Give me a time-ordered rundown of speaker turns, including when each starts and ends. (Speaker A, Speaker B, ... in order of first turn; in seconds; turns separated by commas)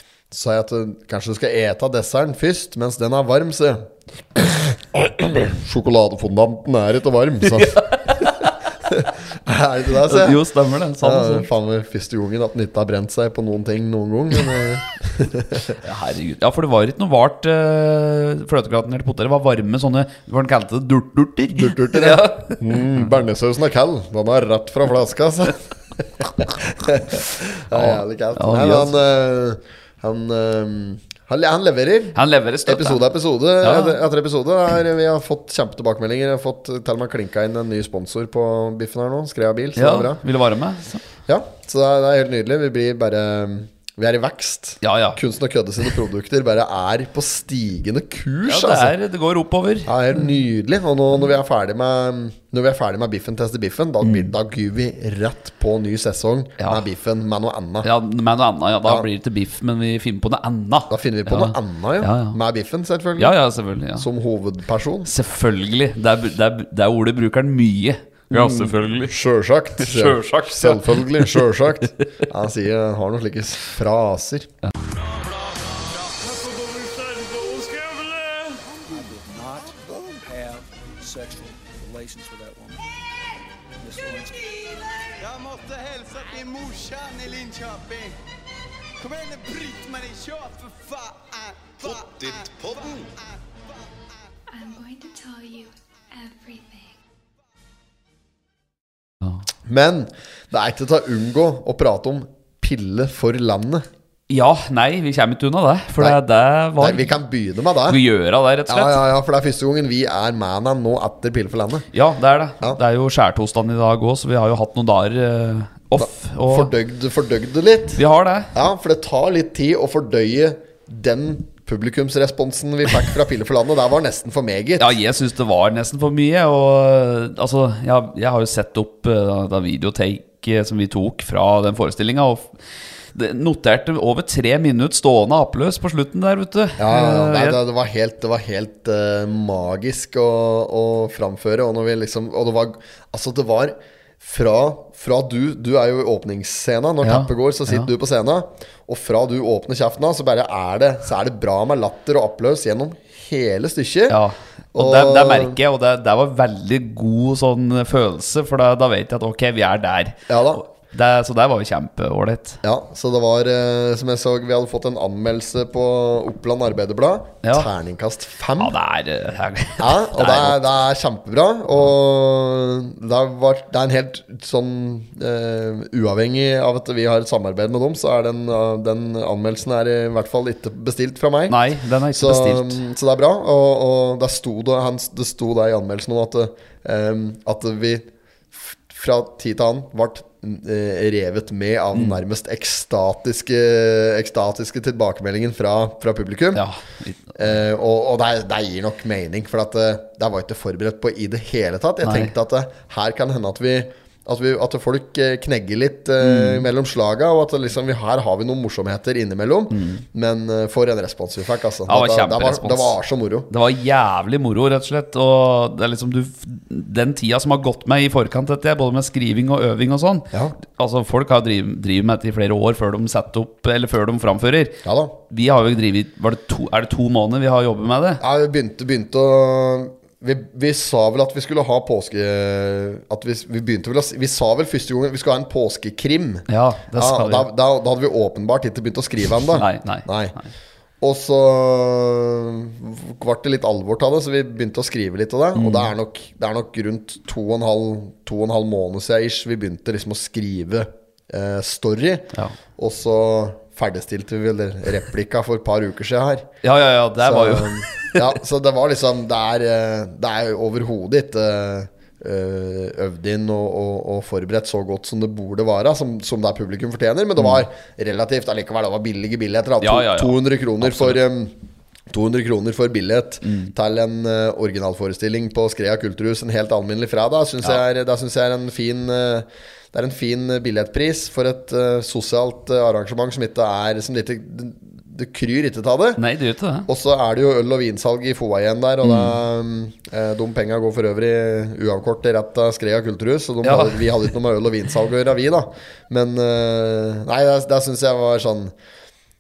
Speaker A: 0.3-10.4, Speaker B: 7.5-8.6, Speaker B: 9.9-11.5, Speaker A: 11.0-15.8, Speaker B: 15.8-23.1, Speaker A: 21.6-40.2, Speaker B: 27.7-29.0, Speaker B: 32.1-33.0, Speaker B: 33.6-34.0, Speaker B: 39.8-41.0, Speaker A: 41.3-48.9, Speaker B: 44.8-45.2, Speaker B: 48.5-49.9, Speaker A: 49.9-57.9, Speaker B: 54.0-54.3, Speaker B: 57.8-62.4, Speaker A: 60.9-63.4, Speaker B: 63.2-64.1, Speaker A: 64.0-65.1, Speaker B: 65.0-69.2, Speaker A: 68.3-74.5, Speaker B: 69.8-71.4, Speaker C: 74.8-82.9, Speaker C: 83.8-85.3, Speaker D: 85.2-88.2, Speaker D: 89.0-94.0, Speaker E: 94.5-97.0, Speaker A: 99.7-103.9, Speaker B: 104.3-107.1, Speaker A: 106.8-108.0, Speaker B: 107.9-109.0, Speaker A: 108.7-111.9, Speaker B: 111.9-116.7, Speaker A: 116.0-118.0, Speaker B: 118.0-118.5, Speaker A: 118.5-124.9, Speaker B: 124.8-132.6, Speaker B: 133.1-137.6, Speaker A: 136.8-154.2, Speaker B: 147.0-147.9, Speaker B: 154.1-162.6, Speaker A: 154.7-155.6, Speaker A: 160.3-160.6, Speaker A: 162.6-168.8, Speaker B: 167.4-167.7, Speaker B: 168.6-170.6, Speaker A: 169.8-181.6, Speaker B: 181.5-182.8, Speaker A: 182.1-196.6, Speaker B: 191.9-192.2, Speaker B: 196.5-197.3, Speaker A: 197.4-213.5, Speaker B: 202.0-202.3, Speaker B: 206.2-206.7, Speaker B: 209.7-210.0, Speaker B: 211.9-213.0, Speaker B: 213.5-228.2, Speaker A: 224.8-225.2, Speaker A: 228.2-240.4, Speaker B: 236.5-237.5, Speaker B: 239.4-240.5, Speaker A: 241.0-256.5, Speaker B: 245.6-245.9, Speaker B: 256.6-258.2, Speaker A: 257.2-271.5, Speaker B: 269.8-271.2, Speaker A: 272.1-286.2, Speaker B: 273.4-273.7, Speaker B: 286.2-286.9, Speaker A: 286.9-298.7, Speaker B: 289.0-289.4, Speaker B: 293.6-294.2